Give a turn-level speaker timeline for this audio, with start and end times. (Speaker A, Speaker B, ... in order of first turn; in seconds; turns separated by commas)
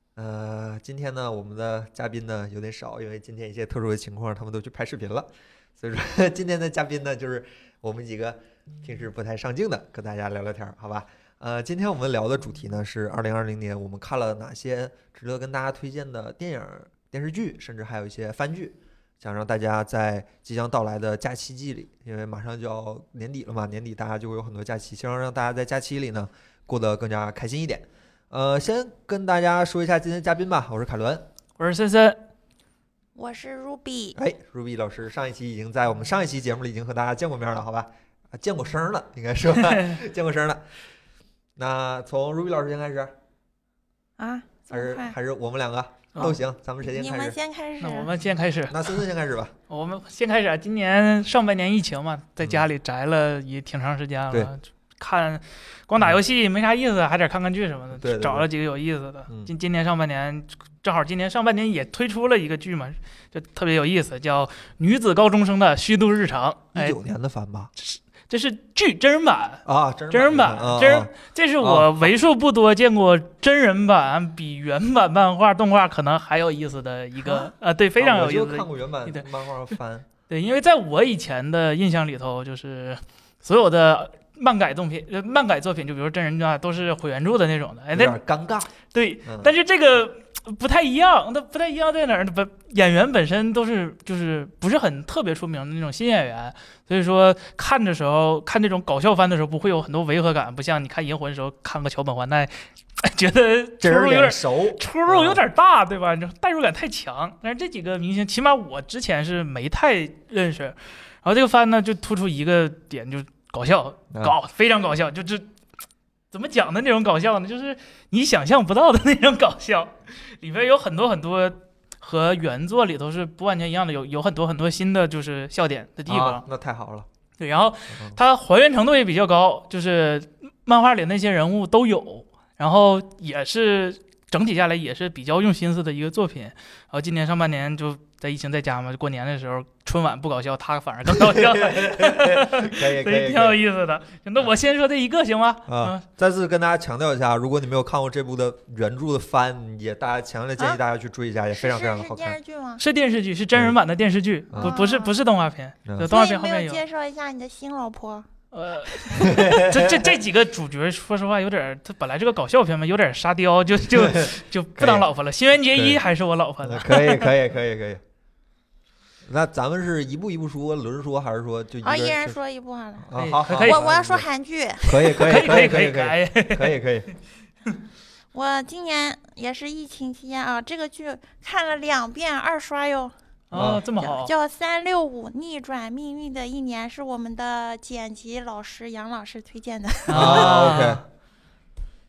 Speaker A: 0.1-31.3, Speaker B: 31.6-32.2, Speaker C: 33.1-34.2, Speaker A: 34.1-40.6, Speaker A: 41.6-43.1, Speaker C: 44.2-45.1, Speaker A: 44.7-47.4, Speaker C: 46.8-48.1, Speaker B: 47.8-49.0, Speaker A: 48.7-49.5, Speaker B: 49.7-67.0, Speaker A: 57.9-58.5, Speaker A: 66.7-67.7, Speaker B: 67.8-79.3, Speaker A: 69.7-72.1, Speaker A: 77.2-80.0, Speaker B: 80.3-88.2, Speaker A: 87.9-88.7, Speaker B: 88.9-115.5, Speaker A: 89.2-89.5, Speaker A: 103.8-105.4, Speaker B: 116.3-126.4, Speaker A: 126.1-127.1, Speaker B: 127.4-146.0, Speaker A: 127.9-128.2, Speaker A: 141.1-143.6, Speaker A: 145.7-152.4, Speaker C: 151.5-152.8, Speaker B: 152.8-156.8, Speaker A: 154.5-154.7, Speaker C: 154.6-155.2, Speaker A: 155.8-156.1, Speaker C: 156.1-158.3, Speaker B: 158.5-167.3, Speaker C: 158.9-159.3, Speaker A: 159.2-160.2, Speaker A: 163.9-165.1, Speaker A: 165.7-166.0, Speaker A: 166.6-168.0, Speaker A: 169.2-172.4, Speaker C: 171.8-173.1, Speaker A: 173.0-174.3, Speaker B: 173.1-173.8, Speaker C: 173.6-175.5, Speaker A: 174.8-177.1, Speaker B: 175.1-176.7, Speaker C: 178.3-183.1, Speaker B: 183.5-184.3, Speaker A: 183.5-183.8, Speaker C: 183.7-190.5, Speaker B: 190.1-191.0, Speaker A: 190.1-191.0